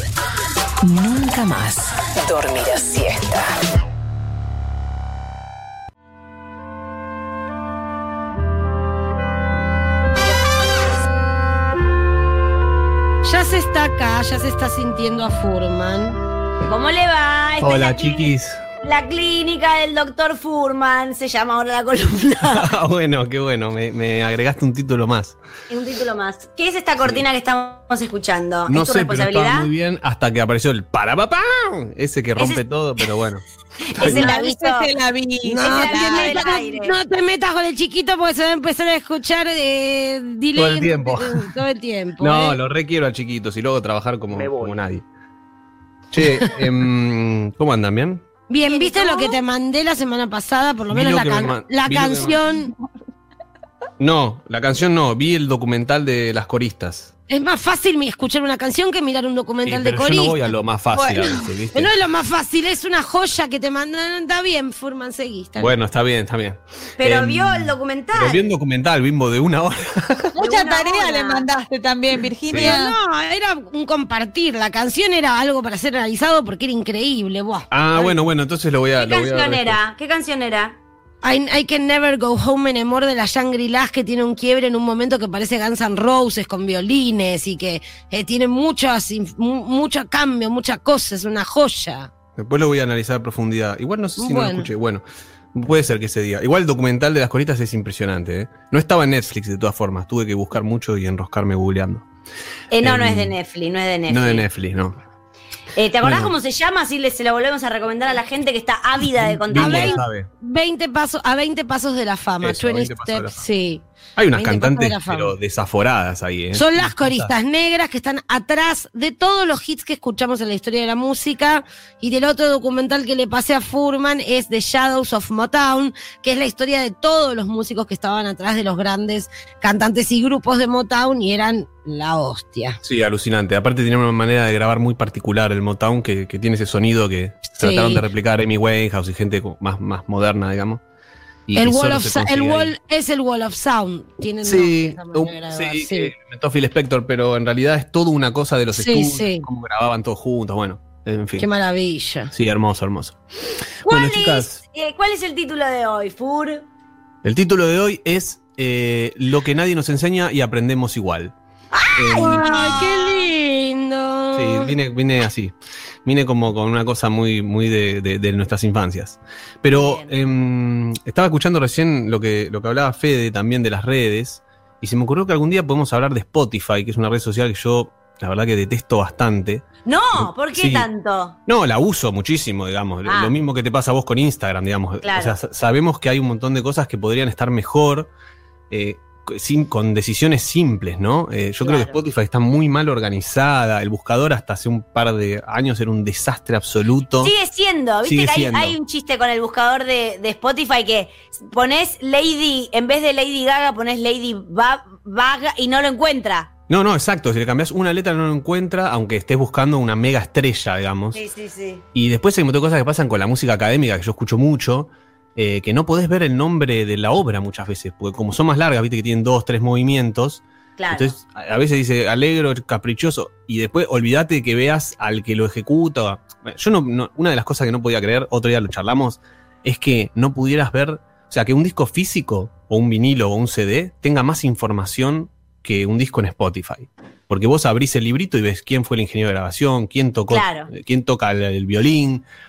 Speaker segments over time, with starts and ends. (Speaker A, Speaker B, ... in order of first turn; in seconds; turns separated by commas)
Speaker A: 0.8-3.6, Speaker B: 13.2-16.2, Speaker C: 16.7-18.3, Speaker D: 17.6-18.6, Speaker C: 18.8-22.7, Speaker D: 22.4-25.4, Speaker C: 25.7-29.7, Speaker D: 27.0-27.2, Speaker D: 28.7-33.4, Speaker C: 32.4-32.6, Speaker C: 33.9-34.9, Speaker D: 33.9-34.3, Speaker E: 34.1-36.4, Speaker B: 35.4-42.6, Speaker C: 35.6-36.9, Speaker D: 40.5-41.5, Speaker D: 42.2-45.0, Speaker D: 46.1-48.2, Speaker B: 48.5-52.7, Speaker E: 48.7-49.4, Speaker D: 50.9-52.4, Speaker D: 54.0-57.1, Speaker B: 57.3-60.4, Speaker D: 59.6-61.9, Speaker E: 60.9-61.4, Speaker B: 61.7-65.7, Speaker D: 65.6-70.3, Speaker C: 67.0-68.4, Speaker E: 70.4-73.0, Speaker C: 70.4-71.5, Speaker D: 72.5-72.8, Speaker B: 72.5-78.1, Speaker D: 77.7-79.8, Speaker C: 79.0-80.8, Speaker B: 81.2-92.1, Speaker D: 92.3-95.0, Speaker B: 94.2-94.7, Speaker D: 95.5-102.0, Speaker C: 102.7-104.4, Speaker D: 102.8-103.3, Speaker D: 104.1-105.0, Speaker C: 105.8-110.0, Speaker D: 106.0-106.3, Speaker D: 109.1-110.3, Speaker B: 109.5-113.8, Speaker D: 112.4-113.4, Speaker D: 114.2-117.3, Speaker B: 114.3-115.3, Speaker B: 116.5-132.8, Speaker D: 132.8-140.8, Speaker B: 137.5-138.1, Speaker D: 141.5-142.7, Speaker B: 141.6-146.1, Speaker D: 144.4-151.5, Speaker B: 148.7-149.4, Speaker B: 151.4-152.3, Speaker D: 152.3-153.2, Speaker D: 153.8-154.6, Speaker C: 153.8-156.6, Speaker D: 157.2-161.3, Speaker C: 161.7-163.2, Speaker D: 161.9-162.8, Speaker B: 162.2-164.7, Speaker D: 164.3-165.5, Speaker D: 166.0-180.9, Speaker C: 169.7-170.1, Speaker C: 179.8-181.3, Speaker D: 181.5-188.1, Speaker C: 183.0-183.3, Speaker C: 185.0-185.3, Speaker D: 188.7-197.3, Speaker C: 191.6-191.9, Speaker C: 197.2-206.5, Speaker D: 198.0-198.8, Speaker D: 206.7-211.2, Speaker C: 211.1-211.8, Speaker D: 211.9-242.2, Speaker C: 220.8-221.1, Speaker C: 240.3-240.7